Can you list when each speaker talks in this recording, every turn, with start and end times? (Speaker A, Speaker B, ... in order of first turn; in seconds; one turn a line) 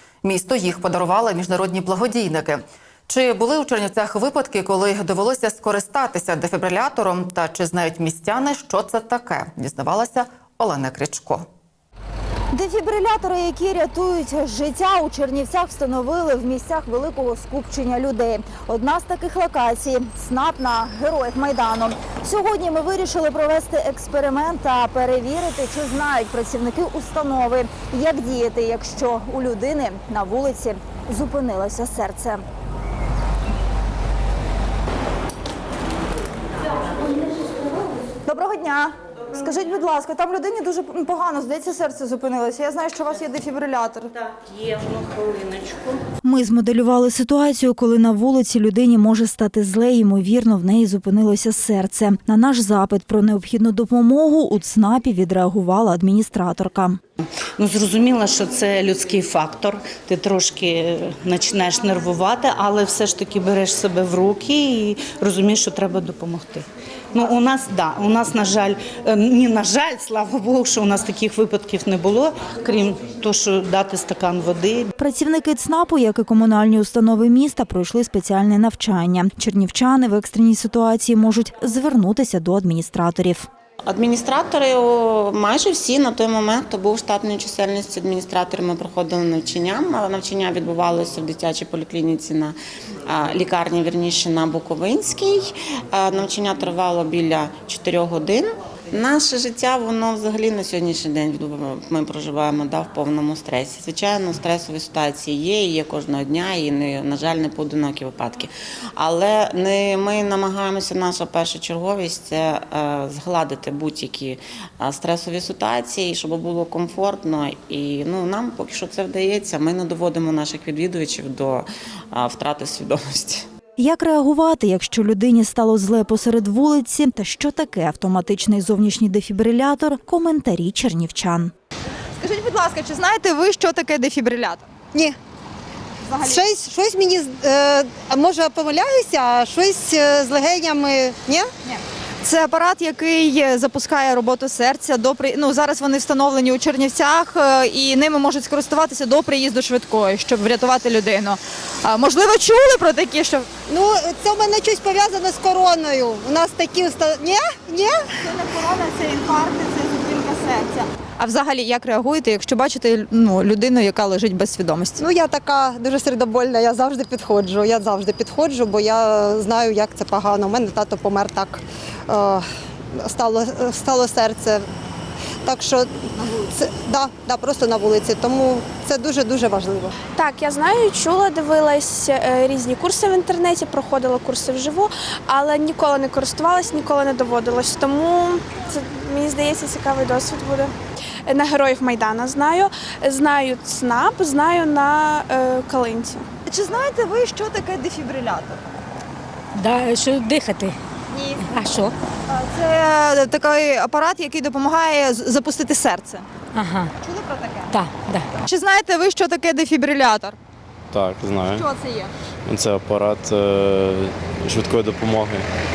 Speaker A: 0.2-11.4
Speaker B: 12.5-32.4
Speaker C: 38.3-44.1
Speaker D: 44.5-45.9
Speaker B: 46.2-57.0
Speaker D: 57.6-74.9
Speaker B: 75.0-83.5
Speaker E: 83.8-92.5
Speaker E: 93.1-123.5
Speaker B: 123.8-131.5
Speaker C: 132.2-134.7
Speaker F: 134.9-135.2
Speaker C: 136.1-136.5
Speaker F: 136.3-141.5
Speaker C: 141.7-153.5
Speaker F: 153.7-158.2
Speaker C: 158.2-165.0
Speaker F: 165.0-174.7
Speaker F: 175.4-179.9
Speaker G: 180.1-190.7
Speaker G: 191.2-196.3
Speaker C: 196.5-198.6
Speaker H: 199.5-200.8
Speaker C: 201.1-201.4
Speaker H: 201.4-201.9
Speaker C: 202.3-206.3
Speaker H: 206.5-206.9
Speaker C: 207.0-207.7
Speaker H: 207.7-208.3
Speaker C: 208.4-210.3
Speaker I: 210.9-211.6
Speaker C: 211.5-212.1
Speaker I: 212.4-215.5